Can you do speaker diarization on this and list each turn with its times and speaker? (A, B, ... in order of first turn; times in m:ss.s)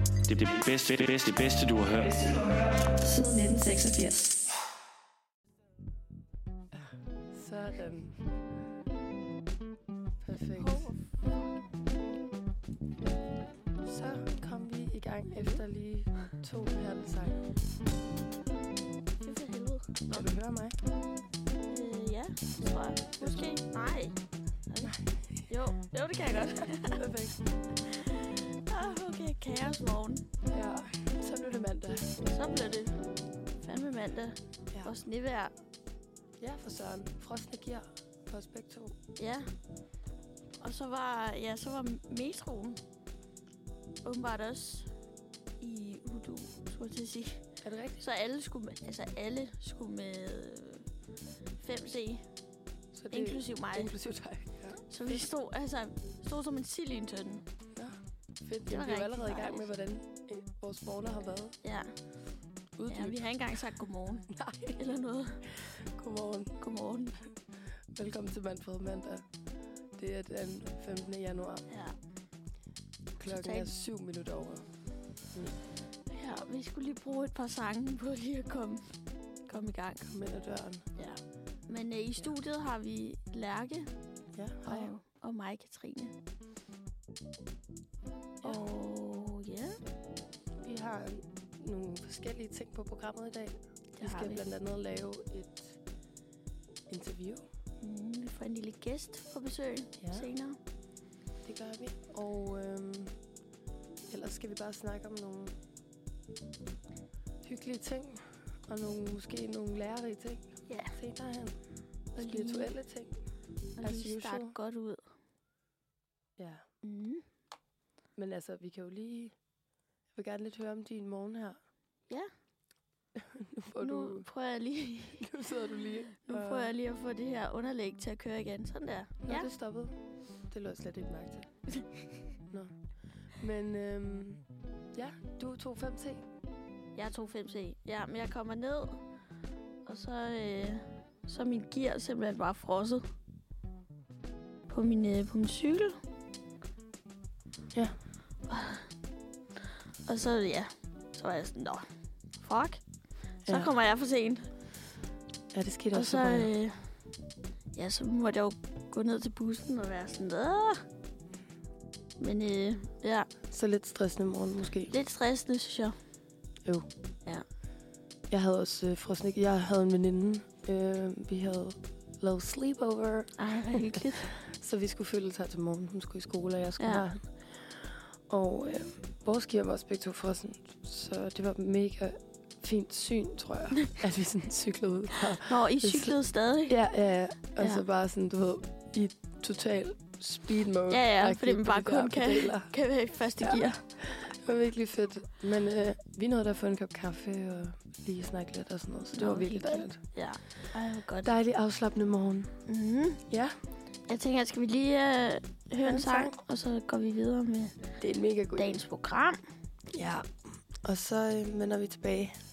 0:00.2-0:02.3 A
0:02.8-0:04.4 B
0:06.7-0:08.3 B
0:10.2-0:10.9 B
0:10.6-0:11.2 C
0:13.8-0:17.4 B
0:15.4-0:15.6 C
0:19.2-0:20.3 C
0:20.1-0:20.8 B
0:21.7-0:24.1 C
0:23.2-0:23.5 B
0:24.7-0:24.9 C
0:24.8-0:25.1 B
0:25.5-0:27.0 C
0:26.4-0:27.5 B
0:27.9-0:30.2 C
0:30.5-0:32.1 B
0:32.2-0:32.9 C
0:33.6-0:35.5 C
0:36.4-0:39.0 B
0:39.2-0:39.5 C
0:40.6-0:42.8 C
0:44.0-0:44.9 C
0:45.6-0:47.4 C
0:47.6-0:48.0 B
0:48.0-0:50.8 C
0:51.6-0:52.2 C
0:52.9-0:55.2 B
0:53.1-0:53.9 C
0:54.9-0:57.4 C
0:57.7-1:01.6 B
0:58.7-0:59.7 C
1:01.6-1:01.9 C
1:02.8-1:03.3 B
1:02.9-1:05.4 C
1:04.3-1:04.8 B
1:05.7-1:06.6 B
1:06.6-1:07.2 C
1:07.9-1:09.2 B
1:10.0-1:11.6 B
1:11.7-1:12.0 C
1:13.2-1:13.7 C
1:13.2-1:14.6 B
1:16.1-1:18.9 C
1:19.5-1:20.1 C
1:20.0-1:20.8 B
1:21.0-1:23.9 C
1:24.3-1:24.9 B
1:24.6-1:26.1 C
1:28.4-1:29.8 C
1:30.6-1:35.8 B
1:34.0-1:34.4 C
1:36.9-1:37.4 B
1:37.8-1:40.6 C
1:40.0-1:40.3 B
1:41.4-1:43.1 B
1:44.1-1:45.6 B
1:47.4-1:51.6 B
1:50.7-1:50.9 C
1:52.1-1:53.2 B
1:52.2-1:52.7 C
1:53.8-1:55.0 C
1:53.8-1:54.5 B
1:56.4-1:56.6 B
1:56.8-1:57.2 C
1:58.2-1:59.3 B
2:00.1-2:01.6 B
2:03.2-2:04.3 B
2:03.8-2:05.3 C
2:05.2-2:06.7 B
2:06.2-2:09.5 C
2:09.2-2:10.0 B
2:10.5-2:11.5 B
2:13.4-2:14.4 B
2:14.9-2:16.2 B
2:17.0-2:19.0 C
2:19.8-2:23.0 C
2:24.7-2:26.0 C
2:28.5-2:28.8 C
2:30.1-2:31.8 C
2:32.4-2:32.8 C
2:33.5-2:34.4 C
2:35.5-2:36.5 B
2:35.9-2:36.8 C
2:37.7-2:40.8 C
2:42.2-2:43.3 C
2:43.5-2:44.9 B
2:44.9-2:46.0 C
2:48.3-2:57.3 B
2:53.4-2:54.3 C
2:56.8-2:57.0 C
2:58.3-3:06.1 B
3:05.4-3:06.8 C
3:06.7-3:12.7 B
3:10.9-3:13.8 C
3:13.4-3:20.0 B
3:19.1-3:21.3 C
3:21.2-3:22.5 B
3:22.7-3:23.2 C
3:23.3-3:23.5 B
3:24.1-3:27.7 C
3:25.8-3:26.3 B
3:28.0-3:28.8 B
3:28.6-3:29.4 C
3:29.9-3:30.3 B
3:30.8-3:32.3 B